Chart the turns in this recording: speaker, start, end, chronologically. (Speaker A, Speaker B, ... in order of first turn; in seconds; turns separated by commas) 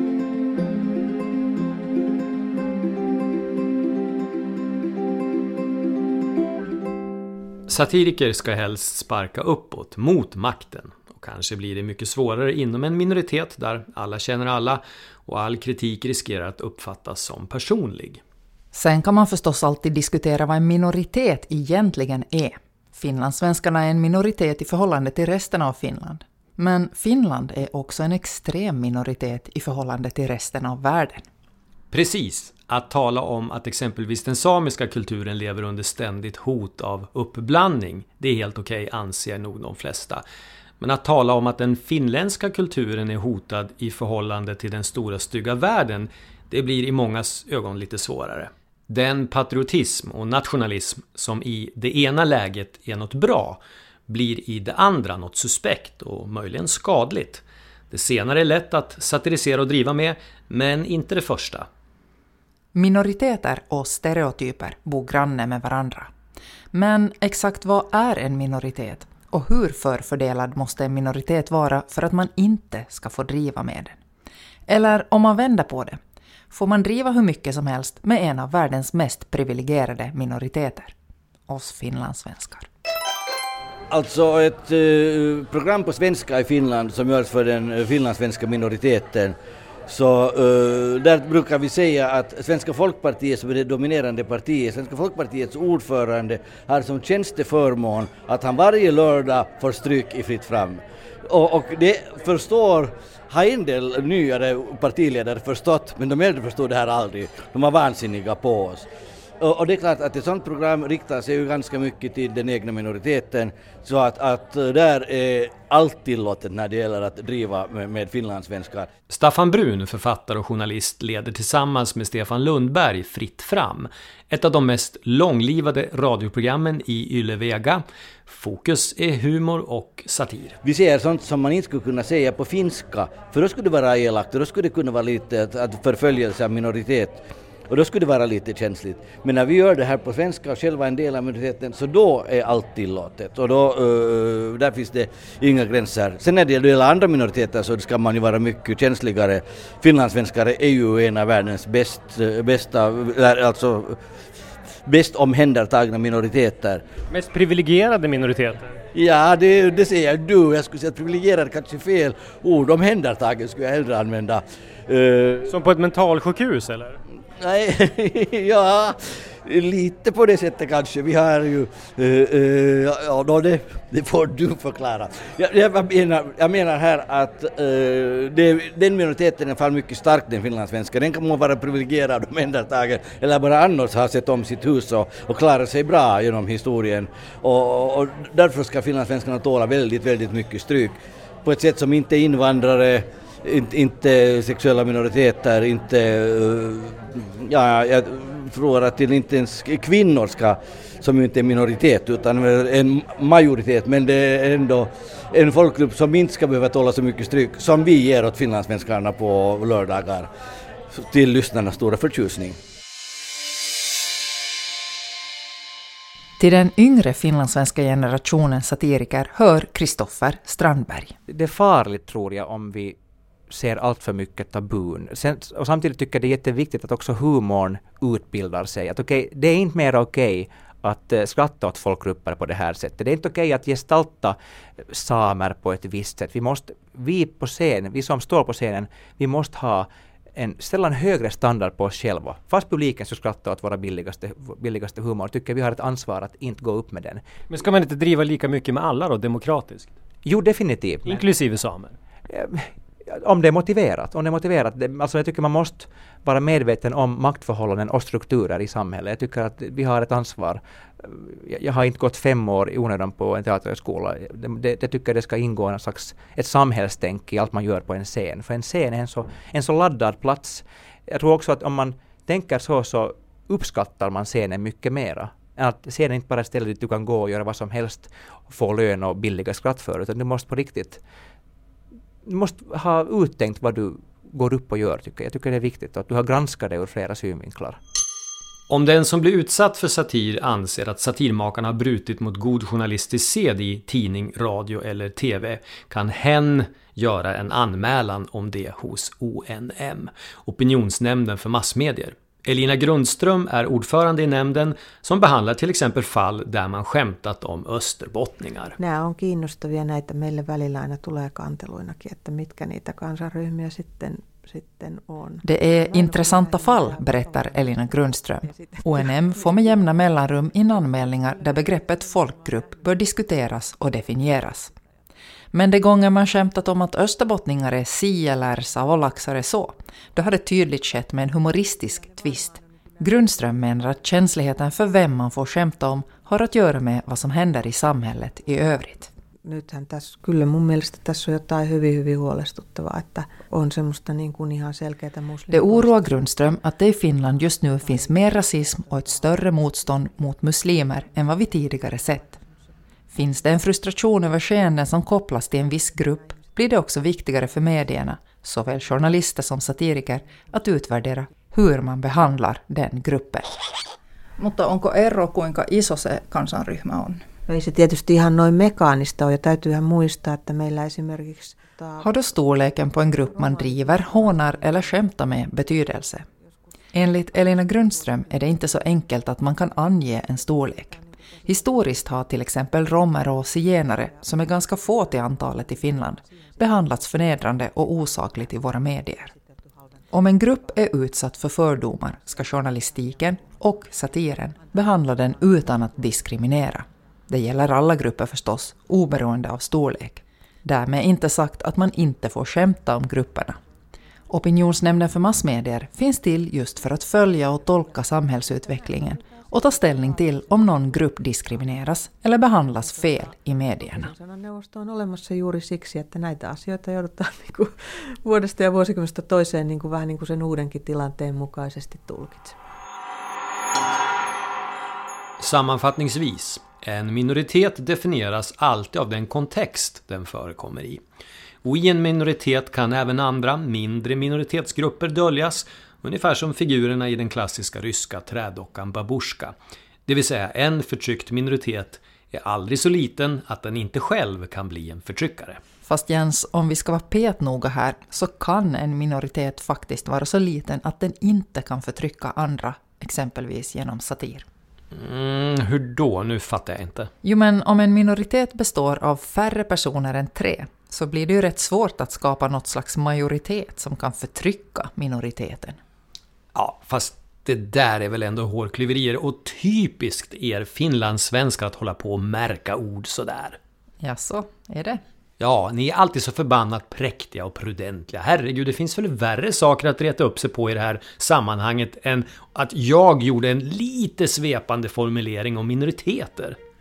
Speaker A: 7.7-18.2, Speaker B: 18.7-31.2, Speaker A: 31.9-40.2, Speaker A: 40.8-61.7, Speaker B: 62.7-66.1, Speaker B: 66.7-74.0, Speaker B: 74.7-76.0, Speaker B: 76.5-80.9, Speaker B: 81.5-82.7, Speaker C: 83.9-89.3, Speaker C: 89.9-108.9, Speaker C: 109.4-118.9, Speaker A: 119.1-130.6, Speaker C: 130.6-154.0, Speaker C: 154.8-156.8, Speaker D: 157.1-158.8, Speaker C: 158.9-165.5, Speaker D: 165.4-167.0, Speaker C: 167.4-210.3, Speaker C: 210.9-212.6, Speaker B: 216.4-221.1, Speaker E: 221.3-223.0, Speaker E: 223.5-234.4, Speaker E: 234.9-247.2, Speaker D: 247.5-250.0, Speaker E: 250.2-251.3, Speaker D: 251.0-251.9, Speaker E: 252.3-281.0, Speaker E: 282.2-287.8, Speaker A: 288.7-308.8, Speaker F: 308.8-319.8, Speaker B: 315.4-324.7, Speaker F: 320.7-322.8, Speaker B: 325.5-339.1, Speaker F: 331.7-333.4, Speaker F: 339.4-346.4, Speaker B: 345.5-352.4, Speaker F: 347.5-351.5, Speaker F: 352.2-352.6, Speaker B: 353.1-363.5, Speaker F: 355.8-356.4, Speaker F: 357.4-358.0, Speaker F: 360.1-360.4, Speaker G: 364.4-367.2, Speaker F: 367.5-372.3, Speaker B: 372.0-376.2, Speaker F: 373.1-378.9, Speaker B: 376.9-389.3, Speaker F: 380.3-382.1, Speaker F: 383.8-390.9, Speaker B: 390.1-403.6, Speaker F: 392.1-394.0, Speaker F: 394.6-396.2, Speaker B: 404.3-414.1, Speaker F: 408.8-410.9, Speaker F: 412.7-422.6, Speaker A: 425.4-431.0, Speaker A: 431.6-439.5, Speaker A: 440.1-445.6, Speaker B: 445.8-454.4, Speaker A: 454.9-457.1, Speaker B: 457.2-465.8, Speaker A: 466.5-473.6, Speaker B: 474.0-475.0, Speaker A: 475.4-486.6